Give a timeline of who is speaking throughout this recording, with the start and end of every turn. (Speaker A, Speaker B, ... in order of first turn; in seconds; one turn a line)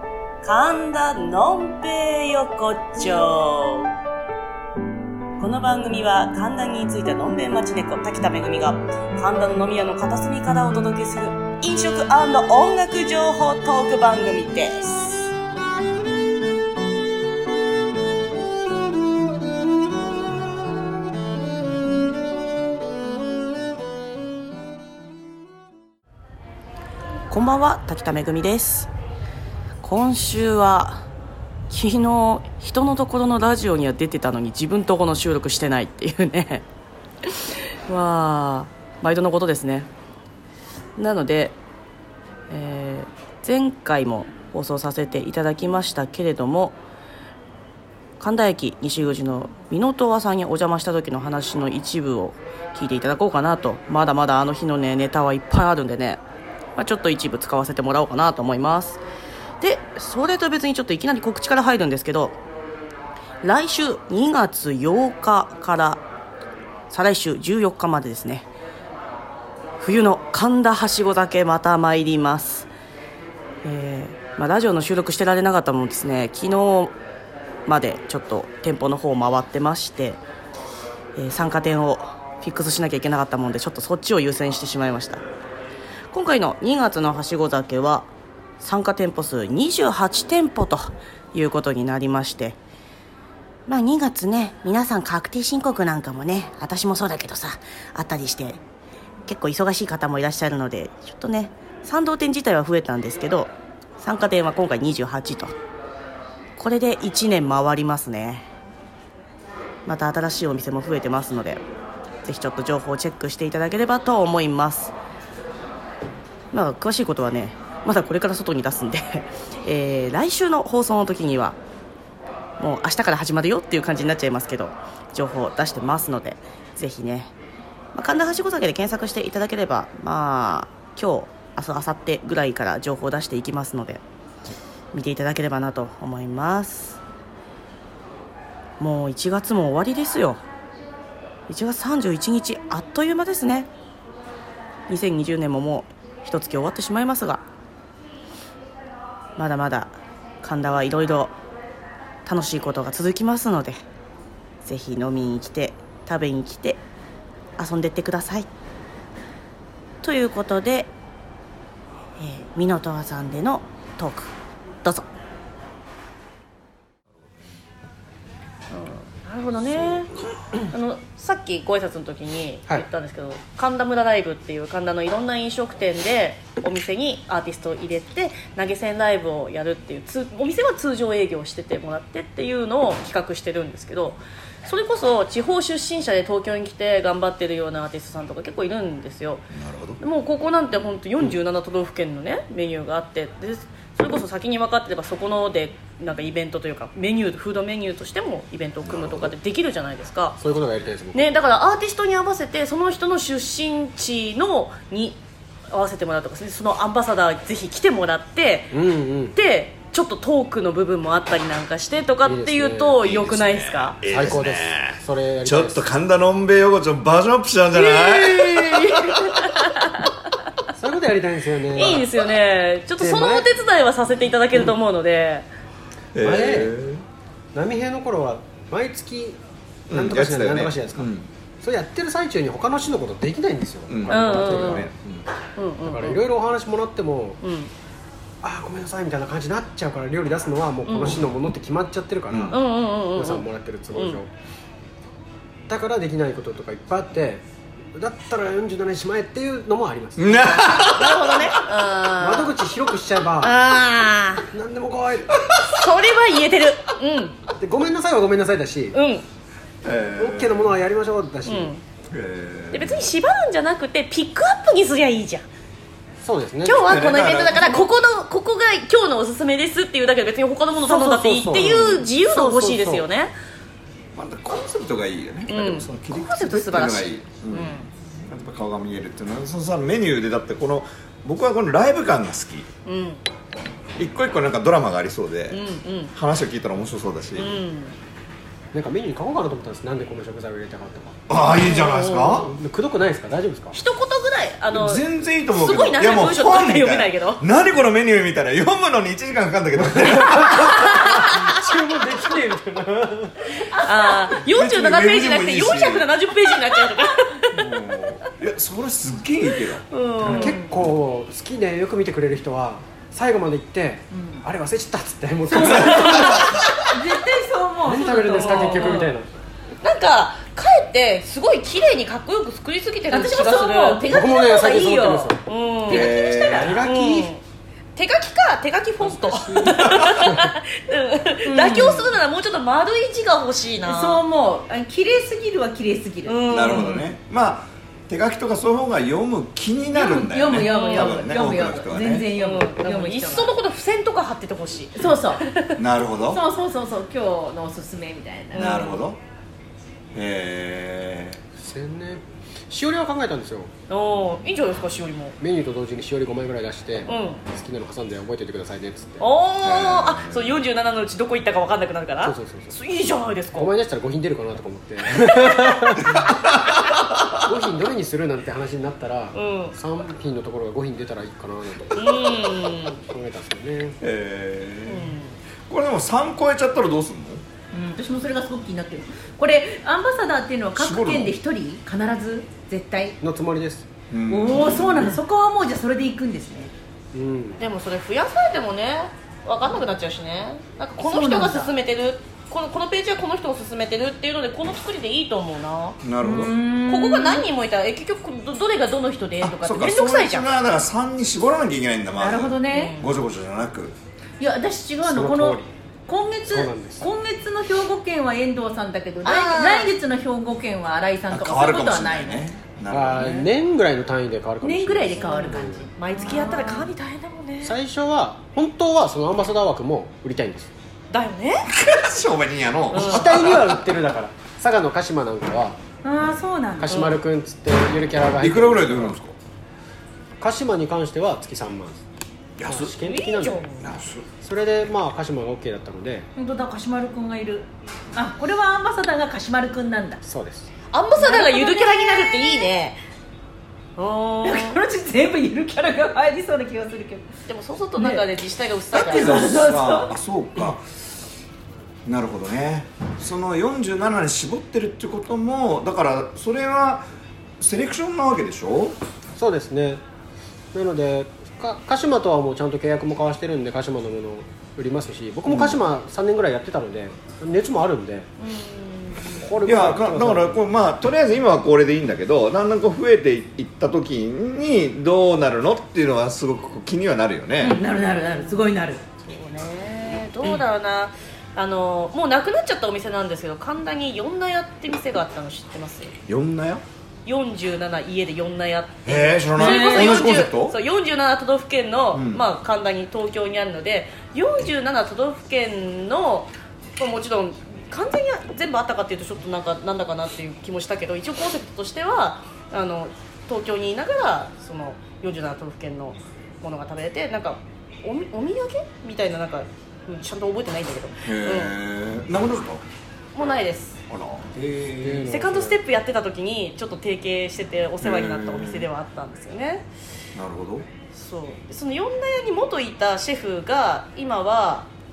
Speaker A: 0.4-3.9
Speaker A: 5.4-15.2
Speaker A: 27.3-28.9
Speaker A: 29.8-31.0
Speaker A: 31.7-36.6
Speaker A: 37.2-39.9
Speaker A: 41.0-41.5
Speaker A: 42.5-46.8
Speaker A: 48.2-56.2
Speaker A: 56.8-59.0
Speaker A: 59.6-62.4
Speaker A: 63.4-66.0
Speaker A: 66.9-68.5
Speaker A: 69.8-72.7
Speaker A: 73.6-76.9
Speaker A: 77.7-80.2
Speaker A: 81.2-85.2
Speaker A: 86.1-88.1
Speaker A: 88.6-92.6
Speaker A: 93.7-98.6
Speaker A: 99.2-105.5
Speaker A: 106.5-108.5
Speaker A: 109.8-111.6
Speaker A: 112.2-114.9
Speaker A: 116.5-121.6
Speaker A: 122.6-127.3
Speaker A: 127.9-134.0
Speaker A: 134.9-137.0
Speaker A: 138.8-140.4
Speaker A: 141.5-143.7
Speaker A: 144.9-147.4
Speaker A: 149.4-151.3
Speaker A: 152.2-153.8
Speaker A: 154.6-156.8
Speaker A: 157.6-158.5
Speaker A: 160.0-160.9
Speaker A: 162.2-164.3
Speaker A: 168.7-170.1
Speaker A: 170.7-189.4
Speaker B: 189.5-190.0
Speaker A: 190.0-200.4
Speaker B: 198.8-199.3
Speaker C: 200.4-201.2
Speaker A: 201.1-205.2
Speaker A: 205.7-208.7
Speaker C: 208.7-209.3
Speaker A: 209.3-214.0
Speaker C: 212.2-213.0
Speaker B: 213.0-219.6
Speaker C: 214.0-215.8
Speaker A: 217.7-220.2
Speaker C: 220.7-222.1
Speaker A: 221.7-225.4
Speaker C: 223.0-223.5
Speaker B: 226.1-227.0
Speaker C: 226.2-226.8
Speaker C: 227.5-234.9
Speaker B: 229.9-231.3
Speaker B: 233.9-235.3
Speaker A: 234.1-234.9
Speaker A: 235.6-236.2
Speaker C: 235.8-237.4
Speaker A: 237.4-237.7
Speaker C: 238.4-244.3
Speaker A: 240.8-241.2
Speaker B: 242.3-242.6
Speaker A: 242.5-244.2
Speaker C: 245.7-247.4
Speaker C: 247.9-250.8
Speaker B: 250.2-251.5
Speaker A: 250.8-252.5
Speaker C: 252.2-253.7
Speaker A: 253.4-254.5
Speaker C: 254.5-255.5
Speaker B: 255.5-255.8
Speaker A: 255.7-257.4
Speaker C: 257.6-259.0
Speaker A: 258.9-259.2
Speaker B: 259.8-260.8
Speaker C: 260.1-261.7
Speaker A: 261.4-261.8
Speaker B: 262.1-263.1
Speaker A: 262.7-265.4
Speaker C: 266.2-267.1
Speaker A: 266.6-273.3
Speaker B: 266.7-267.8
Speaker C: 270.8-273.1
Speaker B: 274.1-282.7
Speaker A: 275.5-277.9
Speaker A: 282.9-283.2
Speaker B: 283.9-287.6
Speaker A: 285.5-286.1
Speaker A: 287.4-287.9
Speaker C: 288.7-291.2
Speaker B: 291.3-292.5
Speaker A: 291.6-292.5
Speaker C: 292.3-293.8
Speaker A: 293.7-297.4
Speaker B: 294.7-301.3
Speaker C: 299.9-303.6
Speaker A: 300.8-301.2
Speaker A: 303.8-307.7
Speaker B: 304.4-306.1
Speaker B: 307.5-310.3
Speaker A: 309.9-310.6
Speaker C: 310.2-316.6
Speaker D: 310.2-310.7
Speaker D: 314.1-314.4
Speaker D: 315.5-319.0
Speaker A: 315.7-316.3
Speaker B: 316.4-316.9
Speaker C: 317.8-319.3
Speaker A: 318.2-319.1
Speaker A: 319.8-326.3
Speaker D: 323.1-324.2
Speaker C: 324.0-325.4
Speaker D: 325.9-326.8
Speaker B: 325.9-326.9
Speaker C: 326.5-327.3
Speaker A: 326.8-327.4
Speaker A: 327.9-334.2
Speaker C: 329.0-329.9
Speaker B: 329.6-330.3
Speaker D: 331.4-332.1
Speaker D: 333.8-336.8
Speaker A: 336.2-337.1
Speaker B: 336.5-342.3
Speaker D: 339.9-343.5
Speaker A: 340.6-341.2
Speaker A: 342.3-345.8
Speaker D: 344.9-345.4
Speaker B: 345.8-346.4
Speaker D: 346.3-348.8
Speaker B: 348.5-349.2
Speaker A: 348.5-349.0
Speaker B: 350.1-351.4
Speaker C: 351.6-353.7
Speaker A: 353.9-355.4
Speaker C: 355.4-359.2
Speaker A: 357.1-357.4
Speaker A: 359.2-363.7
Speaker B: 359.6-360.6
Speaker C: 362.2-362.8
Speaker C: 363.5-366.4
Speaker B: 366.1-367.4
Speaker C: 367.3-372.2
Speaker A: 369.3-369.8
Speaker A: 371.9-373.0
Speaker C: 373.0-374.0
Speaker B: 374.0-377.4
Speaker A: 374.9-375.4
Speaker D: 377.7-383.2
Speaker B: 380.7-381.3
Speaker C: 383.2-383.9
Speaker B: 384.1-385.2
Speaker D: 384.3-386.7
Speaker C: 387.1-387.6
Speaker A: 387.6-396.0
Speaker D: 391.0-391.7
Speaker B: 396.0-396.5
Speaker D: 396.2-397.5
Speaker A: 396.9-400.5
Speaker B: 399.4-403.9
Speaker D: 402.2-402.9
Speaker A: 402.7-403.1
Speaker D: 404.4-412.5
Speaker C: 405.0-405.7
Speaker C: 406.5-407.1
Speaker A: 409.2-409.9
Speaker B: 411.3-413.5
Speaker C: 412.9-415.9
Speaker D: 414.6-416.9
Speaker A: 416.0-417.7
Speaker C: 417.6-420.7
Speaker A: 421.1-421.7
Speaker B: 421.7-423.8
Speaker A: 422.9-423.4
Speaker C: 423.0-425.8
Speaker D: 426.0-427.2
Speaker C: 426.8-429.1
Speaker B: 428.4-429.4
Speaker C: 430.4-432.0
Speaker B: 432.6-432.9
Speaker C: 432.6-433.6
Speaker A: 433.0-433.9
Speaker B: 433.8-434.2
Speaker C: 434.4-436.3
Speaker D: 436.4-440.2
Speaker C: 440.2-440.7
Speaker A: 440.9-443.0
Speaker D: 441.1-442.6
Speaker A: 444.0-444.8
Speaker D: 444.4-447.3
Speaker A: 447.5-449.6
Speaker D: 448.0-448.2
Speaker B: 448.9-451.0
Speaker D: 449.1-450.1
Speaker B: 452.1-457.0
Speaker B: 457.6-459.0
Speaker C: 459.4-460.0
Speaker C: 460.7-468.3
Speaker B: 465.4-465.8
Speaker A: 468.4-469.5
Speaker C: 469.3-470.6
Speaker B: 469.6-477.8
Speaker D: 477.6-479.0
Speaker A: 478.3-478.6
Speaker A: 479.2-486.1
Speaker B: 486.3-486.8
Speaker A: 487.2-511.7
Speaker B: 489.0-490.8
Speaker D: 489.6-490.3
Speaker B: 492.1-492.4
Speaker B: 511.2-512.8
Speaker A: 513.3-514.0
Speaker B: 514.1-515.3
Speaker C: 515.0-515.8
Speaker A: 515.3-519.9
Speaker B: 518.0-518.9
Speaker B: 520.3-520.9
Speaker A: 521.1-524.9